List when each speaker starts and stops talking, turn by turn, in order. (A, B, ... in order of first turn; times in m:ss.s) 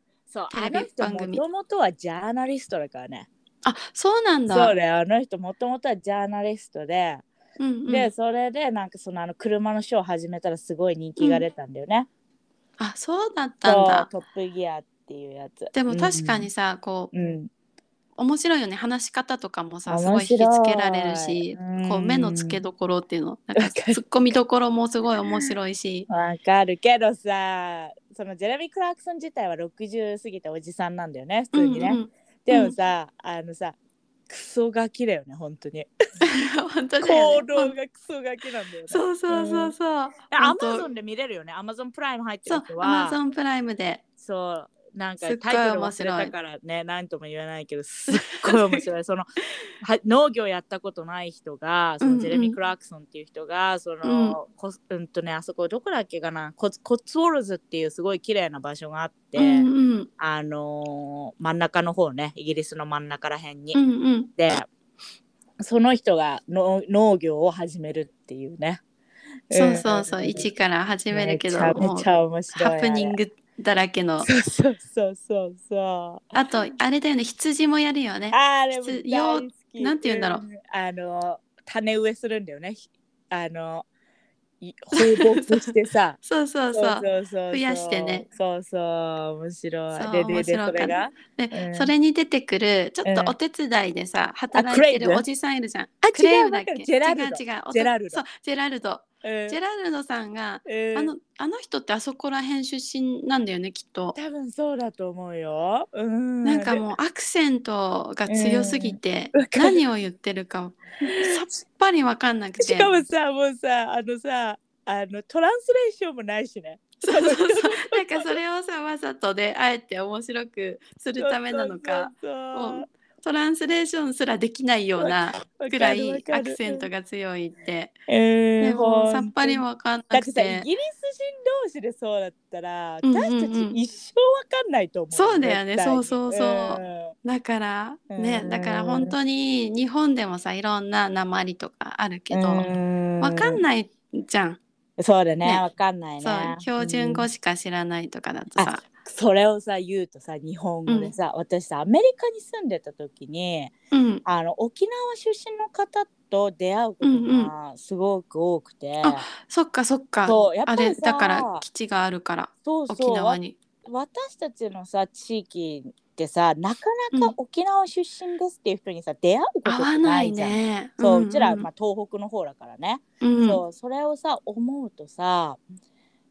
0:00.3-0:03.3 A
0:00.5-0:01.4 B
0:03.6-0:04.7 B
0:04.5-0:07.2 A
0:07.6-0:08.1 B
0:07.9-0:12.1 A
0:11.2-0:11.4 B
0:12.8-0:14.1 B
0:13.6-0:16.5 A
0:15.7-0:17.1 B
0:17.1-0:17.5 A
0:18.2-0:26.1 B
0:19.9-0:22.6 A
0:23.6-0:24.0 A
0:25.2-0:25.5 A
0:26.1-0:33.8 A
0:31.5-0:32.7 B
0:34.3-0:35.9 A
0:36.2-0:37.7 B
0:37.0-0:39.7 A
0:38.9-0:40.8 B
0:40.3-0:43.2 A
0:42.4-0:44.0 B
0:44.2-0:49.3 A
0:45.2-0:46.3 B
0:48.1-0:48.8 B
0:49.8-1:03.8 A
0:52.0-0:52.6 B
0:54.0-0:54.4 B
0:59.4-1:00.1 B
1:03.7-1:04.3 B
1:04.4-1:04.7 A
1:05.6-1:08.8 A
1:09.5-1:10.5 A
1:09.5-1:14.3 B
1:11.1-1:13.2 A
1:14.2-1:16.3 A
1:16.3-1:20.4 B
1:18.3-1:23.8 A
1:24.6-1:26.2 A
1:25.0-1:25.7 B
1:26.2-1:28.2 B
1:26.7-1:31.9 A
1:29.9-1:44.2 B
1:33.0-1:33.4 A
1:34.5-1:35.2 A
1:36.0-1:38.2 A
1:39.2-1:39.6 A
1:40.6-1:41.1 A
1:44.1-1:46.8 A
1:46.4-1:53.0 B
1:48.3-1:49.8 A
1:51.0-1:51.4 A
1:52.6-1:58.4 A
1:57.0-2:07.9 B
2:01.2-2:02.8 A
2:05.0-2:06.9 A
2:08.1-2:17.1 A
2:08.6-2:10.7 B
2:13.0-2:13.8 B
2:15.1-2:22.7 B
2:18.1-2:19.1 A
2:22.3-2:23.6 A
2:23.2-2:24.6 B
2:25.0-2:27.3 A
2:26.2-2:28.8 B
2:28.5-2:39.2 A
2:30.9-2:31.1 B
2:33.9-2:34.2 B
2:37.0-2:37.5 B
2:39.0-2:43.6 B
2:40.2-2:41.6 A
2:42.6-2:55.6 A
2:49.6-2:51.7 B
2:53.2-2:53.6 B